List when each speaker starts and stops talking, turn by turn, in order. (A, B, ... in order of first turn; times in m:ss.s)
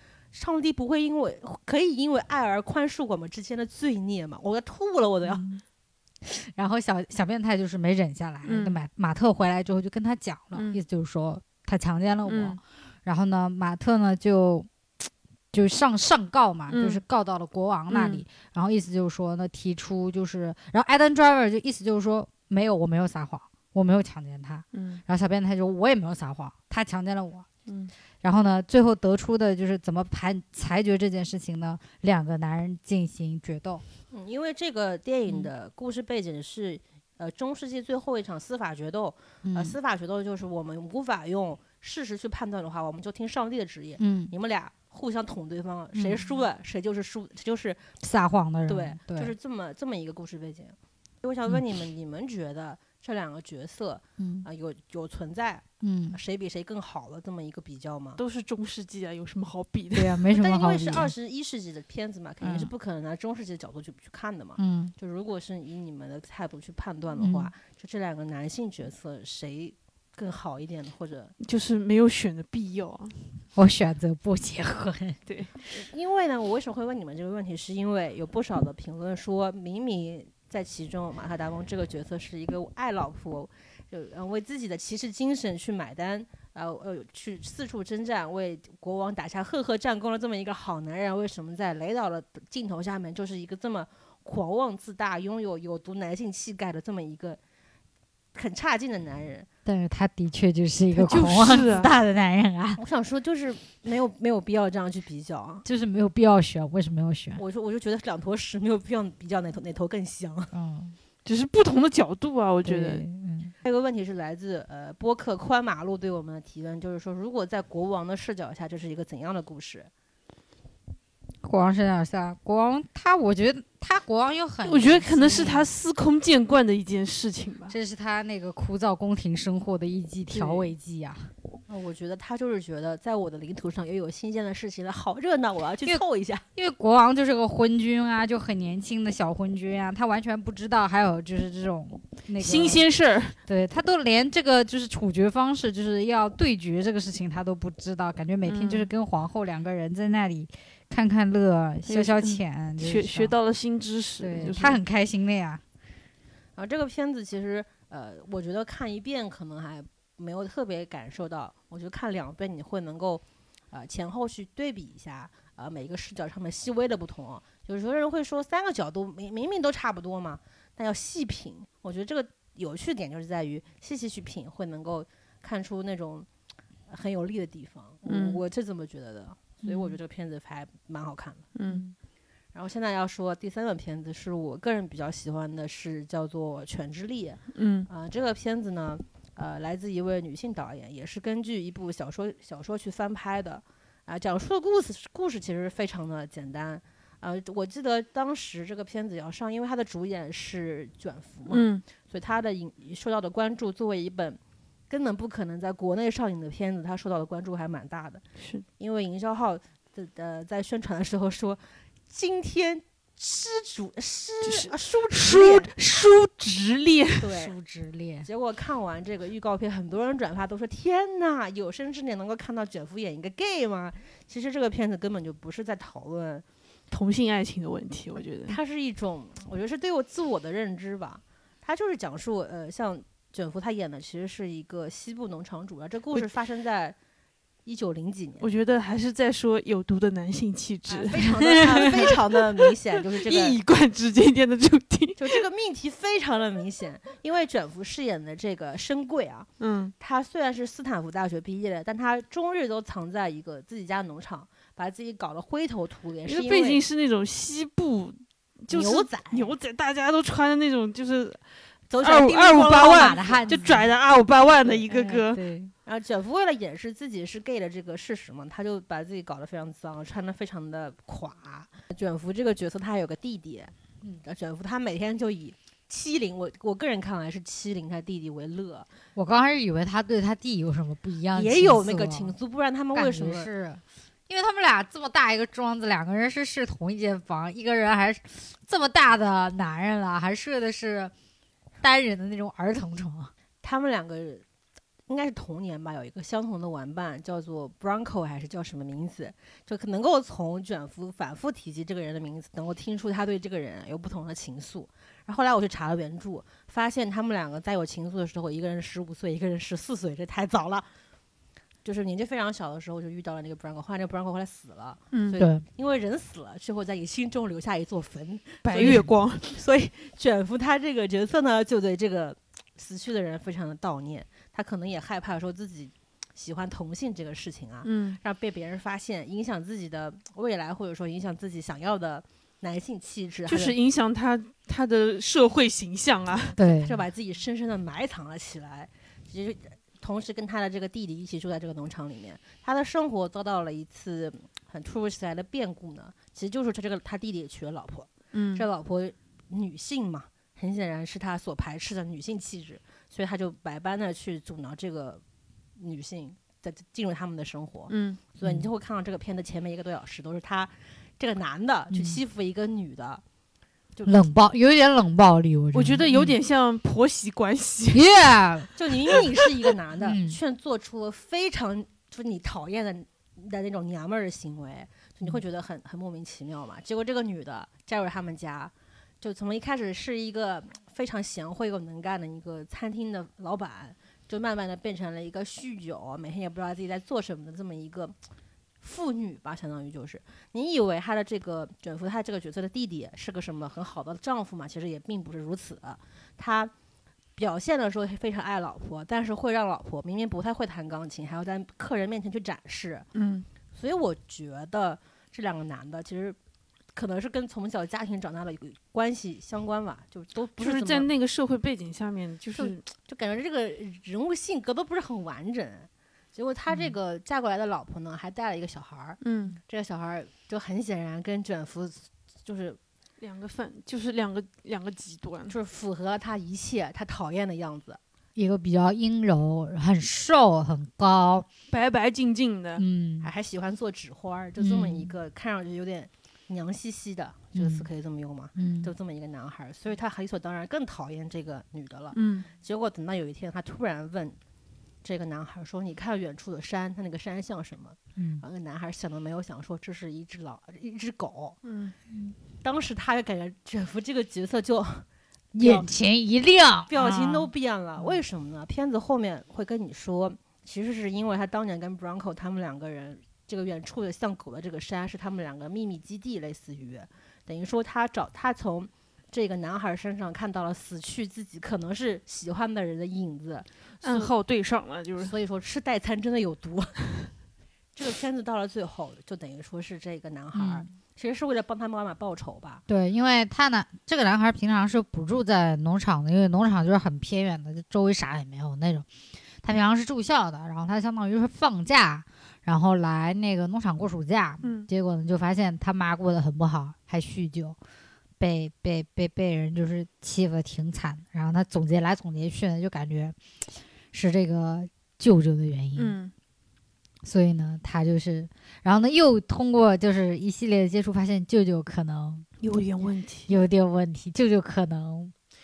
0:00.3-0:05.4 A
0:05.2-0:05.6 B
0:06.2-0:14.7 B
0:08.4-0:08.8 C
0:10.5-0:10.8 C
0:12.3-0:12.6 C
0:15.5-0:27.5 B
0:16.7-0:17.0 C
0:17.9-0:18.2 C
0:24.7-0:25.0 C
0:27.7-0:27.9 C
0:28.2-0:33.8 B
0:34.1-0:47.8 A
0:39.4-0:39.8 B
0:44.0-0:44.3 B
0:45.9-0:46.3 B
0:48.0-0:49.3 B
0:48.7-0:58.2 A
0:54.2-0:54.5 B
0:55.8-0:56.2 B
0:58.2-1:00.2 C
0:59.9-1:01.1 B
1:00.4-1:11.3 A
1:02.4-1:02.7 B
1:04.6-1:04.9 B
1:07.2-1:07.5 B
1:11.4-1:13.2 C
1:13.6-1:15.2 B
1:15.3-1:15.6 C
1:15.7-1:37.4 A
1:38.3-1:39.5 A
1:39.6-1:42.8 B
1:41.0-1:41.9 C
1:42.8-1:45.6 A
1:45.6-1:47.4 B
1:47.4-1:50.5 A
1:50.5-1:51.0 B
1:51.2-1:53.0 C
1:52.6-1:53.6 B
1:53.7-1:59.9 A
2:01.4-2:05.7 B
2:04.6-2:07.7 C
2:07.7-2:11.3 B
2:10.3-2:10.7 C
2:11.7-2:16.4 A
2:16.6-2:22.8 B
2:22.4-2:23.4 C
2:23.5-2:33.3 B
2:28.5-2:28.9 C
2:31.9-2:34.8 C
2:34.2-2:35.6 B
2:36.6-2:56.3 A
2:56.9-3:01.5 A
2:58.1-2:58.4 C
2:59.6-3:00.0 B
3:01.6-3:01.9 C
3:02.5-3:24.4 A
3:07.5-3:07.9 C
3:21.5-3:21.8 C
3:24.9-3:28.2 A
3:28.4-3:28.6 C
3:28.8-3:35.7 A
3:34.4-3:37.3 C
3:37.2-3:37.6 A
3:37.3-3:38.3 B
3:38.2-3:46.4 A
3:46.9-3:48.6 C
3:48.5-3:57.0 A
3:57.6-3:58.5 A
3:58.4-4:05.4 C
4:00.9-4:03.6 A
4:01.7-4:02.0 B
4:05.2-4:09.5 A
4:09.6-4:09.9 C
4:10.0-4:16.8 A
4:16.2-4:21.4 C
4:18.7-4:19.6 A
4:21.9-4:23.6 A
4:22.0-4:25.4 C
4:22.8-4:23.9 B
4:24.9-4:25.7 B
4:25.8-4:38.9 A
4:39.2-4:42.3 B
4:41.3-4:43.5 A
4:42.9-4:51.1 B
4:51.8-4:53.3 B
4:53.6-4:54.4 A
4:55.1-5:10.9 A
5:11.8-5:33.8 A
5:15.1-5:15.4 C
5:15.4-5:15.6 B
5:18.6-5:19.5 C
5:27.8-5:28.2 C
5:33.5-5:36.5 C
5:36.5-5:55.2 A
5:36.6-5:37.0 B
5:48.3-5:48.6 C
5:55.8-6:03.2 A
5:57.9-5:58.2 C
6:01.9-6:02.2 B
6:04.0-6:04.2 A
6:04.1-6:06.4 B
6:05.7-6:08.1 C
6:07.9-6:09.2 B
6:08.8-6:28.2 A
6:09.1-6:09.4 C
6:10.0-6:10.4 B
6:28.8-6:36.7 A
6:37.4-6:43.1 A
6:43.1-6:43.5 C
6:43.7-6:46.4 A
6:46.9-6:51.1 A
6:50.6-6:52.8 C
6:52.6-7:02.8 A
6:59.2-6:59.6 C
7:03.2-7:05.6 C
7:05.5-7:08.0 A
7:08.4-7:11.5 B
7:11.7-7:12.8 C
7:12.8-7:13.3 B
7:13.2-7:24.4 A
7:14.6-7:15.1 B
7:17.6-7:17.9 B
7:18.6-7:18.9 B
7:22.1-7:22.5 C
7:25.0-7:31.6 A
7:28.2-7:28.4 B
7:31.6-7:32.0 C
7:32.6-7:35.1 A
7:35.5-7:38.2 B
7:35.6-7:35.9 A
7:36.9-7:54.3 A
7:54.0-7:55.4 C
7:55.2-7:57.0 A
7:58.0-8:02.8 A
8:00.6-8:00.9 B
8:02.9-8:09.1 B
8:09.6-8:17.8 B
8:14.6-8:14.9 C
8:18.4-8:23.4 B
8:24.1-8:26.2 B
8:26.0-8:26.3 C
8:27.2-8:32.5 B
8:32.6-8:33.5 C
8:33.5-8:35.3 B